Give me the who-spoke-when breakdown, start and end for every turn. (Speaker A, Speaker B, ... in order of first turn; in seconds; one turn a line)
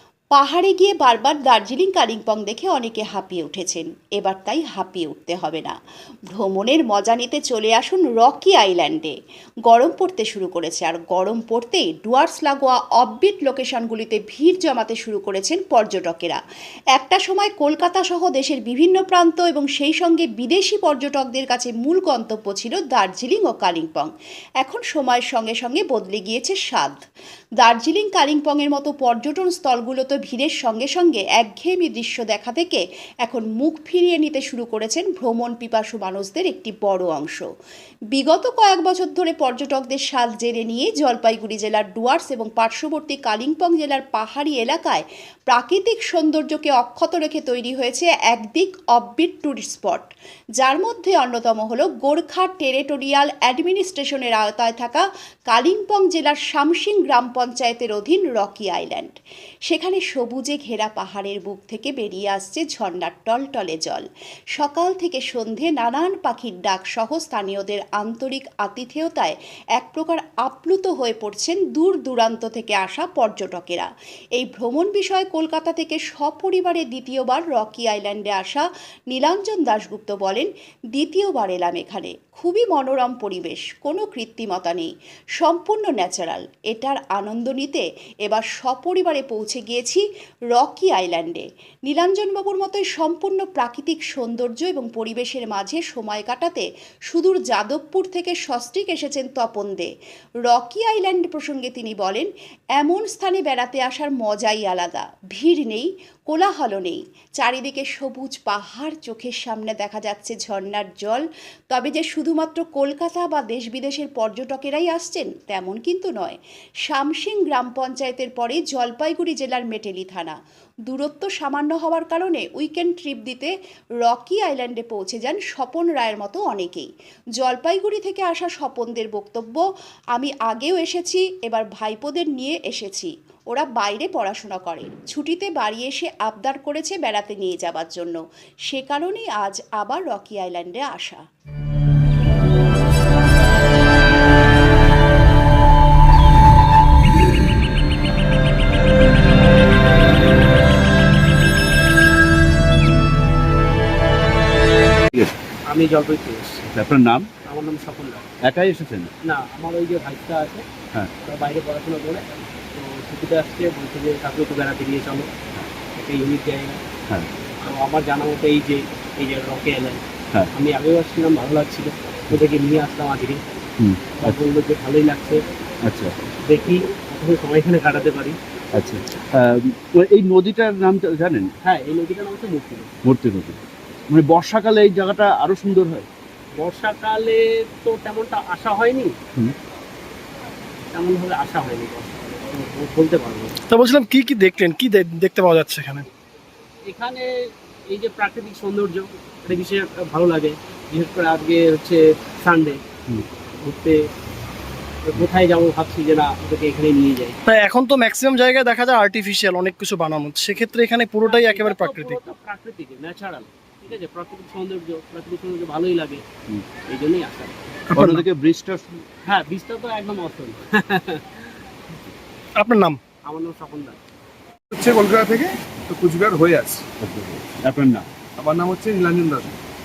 Speaker A: 0.3-5.8
Speaker A: 6.3-9.1
Speaker A: 9.7-16.4
Speaker A: 16.9-24.1
Speaker A: 24.6-27.0
Speaker A: 27.6-37.4
Speaker A: 38.1-50.1
Speaker A: 50.6-59.1
Speaker A: 59.7-64.0
Speaker A: 64.6-99.9
Speaker A: 100.5-120.4
Speaker A: 120.9-123.5
Speaker A: 124.0-129.6
Speaker A: 130.2-141.2
Speaker B: 155.7-156.6
Speaker C: 156.7-157.3
Speaker B: 157.4-158.3
Speaker C: 158.4-159.1
Speaker B: 159.2-160.6
Speaker B: 161.2-165.3
Speaker B: 166.0-166.8
Speaker B: 167.6-170.0
Speaker B: 170.5-173.4
Speaker C: 173.8-174.4
Speaker B: 174.2-175.4
Speaker C: 175.8-176.1
Speaker B: 176.5-178.4
Speaker C: 178.8-181.5
Speaker B: 181.6-182.9
Speaker C: 183.0-186.1
Speaker B: 186.6-189.1
Speaker B: 190.9-193.5
Speaker D: 193.7-196.1
Speaker B: 196.9-197.3
Speaker B: 197.9-202.8
Speaker B: 203.6-204.0
Speaker B: 205.1-207.4
Speaker D: 207.5-212.2
Speaker B: 211.2-216.2
Speaker B: 216.9-217.6
Speaker D: 217.9-218.2
Speaker C: 217.9-219.1
Speaker B: 219.2-221.5
Speaker D: 222.6-223.0
Speaker B: 223.3-224.0
Speaker E: 224.7-226.8
Speaker C: 227.0-228.1
Speaker E: 228.4-229.6